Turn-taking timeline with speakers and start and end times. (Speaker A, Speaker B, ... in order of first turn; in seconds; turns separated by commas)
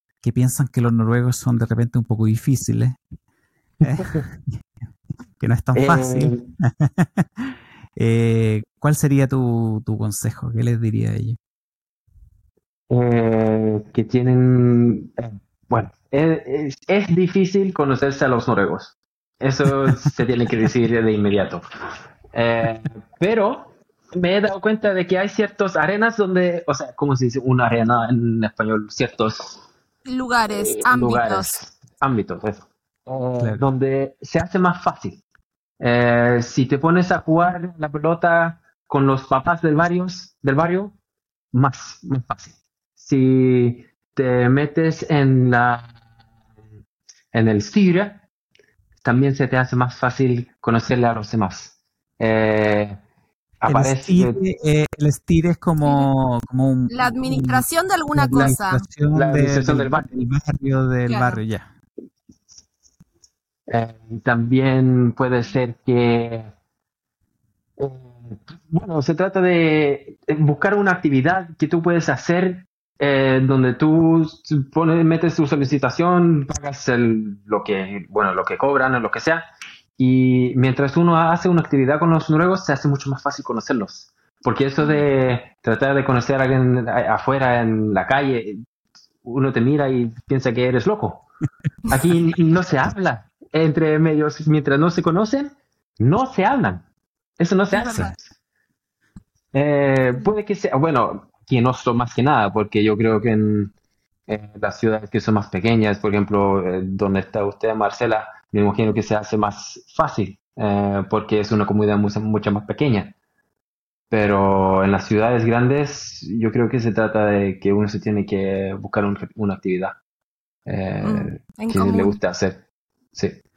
Speaker A: 0.2-3.0, Speaker A: 3.8-4.6, Speaker A: 5.4-11.4, Speaker B: 5.7-6.5, Speaker B: 12.9-21.6, Speaker B: 22.3-29.6, Speaker C: 30.0-31.6, Speaker B: 30.5-35.2, Speaker B: 35.8-40.9, Speaker B: 41.5-46.0, Speaker B: 47.3-48.2, Speaker B: 49.0-53.0, Speaker B: 53.6-54.4, Speaker A: 53.6-57.6, Speaker C: 55.8-56.1, Speaker C: 56.9-58.8, Speaker A: 58.1-61.7, Speaker B: 58.3-58.5, Speaker B: 59.1-60.1, Speaker C: 61.1-61.4, Speaker B: 63.7-66.5, Speaker B: 67.8-79.4, Speaker B: 80.0-88.6, Speaker B: 89.2-91.2, Speaker B: 91.9-96.8, Speaker B: 97.4-98.2, Speaker C: 97.7-98.1, Speaker B: 99.5-103.7, Speaker B: 104.3-113.1, Speaker B: 114.1-120.0, Speaker B: 120.7-123.4, Speaker C: 121.0-122.2